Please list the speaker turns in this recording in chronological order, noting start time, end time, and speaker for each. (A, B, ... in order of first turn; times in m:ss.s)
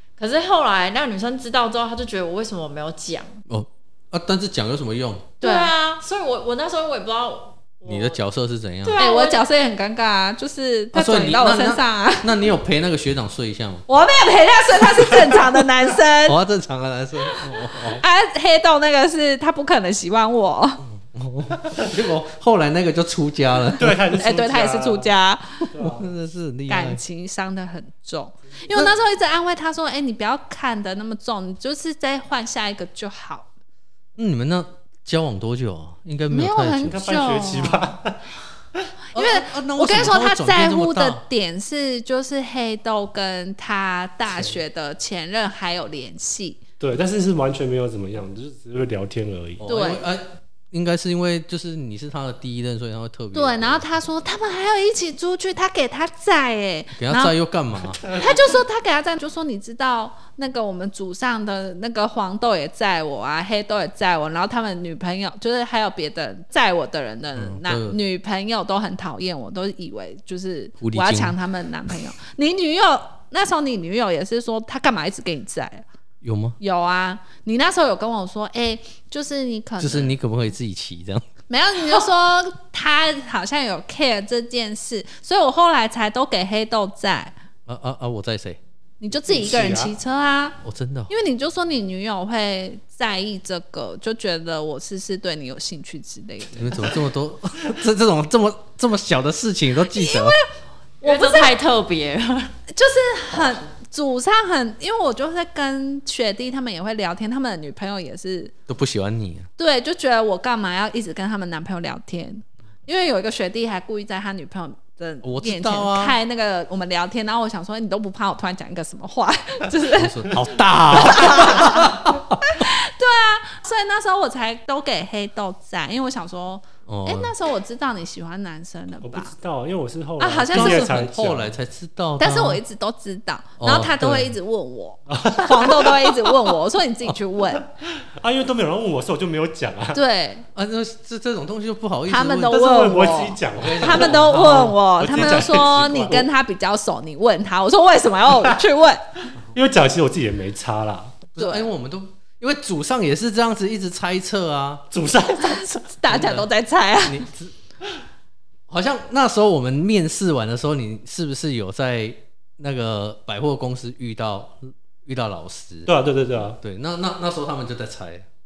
0:00.2-0:03.4 A
0:03.5-0:05.3 B
0:05.4-0:08.2 A
0:05.4-0:05.7 C
0:07.9-0:09.0 B
0:08.8-0:09.4 A
0:09.0-0:12.3 C
0:10.9-0:13.8 B
0:13.9-0:16.4 C
0:16.3-0:18.0 B
0:17.9-0:20.8 C
0:20.8-0:24.0 B
0:23.8-0:25.1 D
0:24.1-0:25.7 C
0:25.7-0:26.1 D
0:25.8-0:27.0 B
0:26.7-0:33.5 C
0:34.2-0:37.0 B
0:36.3-0:37.9 C
0:36.9-0:38.2 D
0:39.1-0:41.2 B
0:39.1-0:46.6 C
0:46.8-0:49.6 D
0:49.6-0:53.8 B
0:49.7-0:50.0 C
0:53.3-0:57.3 C
0:57.0-0:58.0 B
0:58.1-1:15.8 C
1:07.4-1:08.0 B
1:10.8-1:11.3 B
1:16.2-1:16.6 B
1:16.6-1:20.1 C
1:19.8-1:21.2 B
1:21.5-1:27.3 C
1:27.6-1:28.6 B
1:29.0-1:30.6 C
1:29.2-1:29.9 D
1:30.6-1:31.1 B
1:31.1-1:36.9 C
1:36.6-1:40.4 B
1:39.9-1:40.5 C
1:41.0-1:41.5 C
1:41.0-1:42.5 A
1:42.7-1:48.5 C
1:48.7-1:49.5 B
1:49.6-2:00.4 C
1:55.2-1:56.2 B
1:59.9-2:02.4 B
2:00.9-2:09.3 C
2:06.9-2:07.3 B
2:09.0-2:11.6 D
2:10.2-2:11.0 C
2:10.5-2:12.6 B
2:12.2-2:17.7 C
2:13.6-2:14.3 B
2:15.1-2:16.1 D
2:18.0-2:20.0 D
2:19.9-2:20.4 C
2:20.5-2:22.6 B
2:22.1-2:29.0 C
2:22.4-2:26.3 D
2:23.5-2:25.4 B
2:29.5-2:31.2 D
2:31.3-2:34.8 B
2:31.4-2:31.7 C
2:34.9-2:35.9 D
2:35.4-2:37.2 C
2:36.1-2:36.5 B
2:37.0-2:37.5 B
2:38.7-2:45.9 B
2:45.8-2:46.6 D
2:46.6-2:48.2 B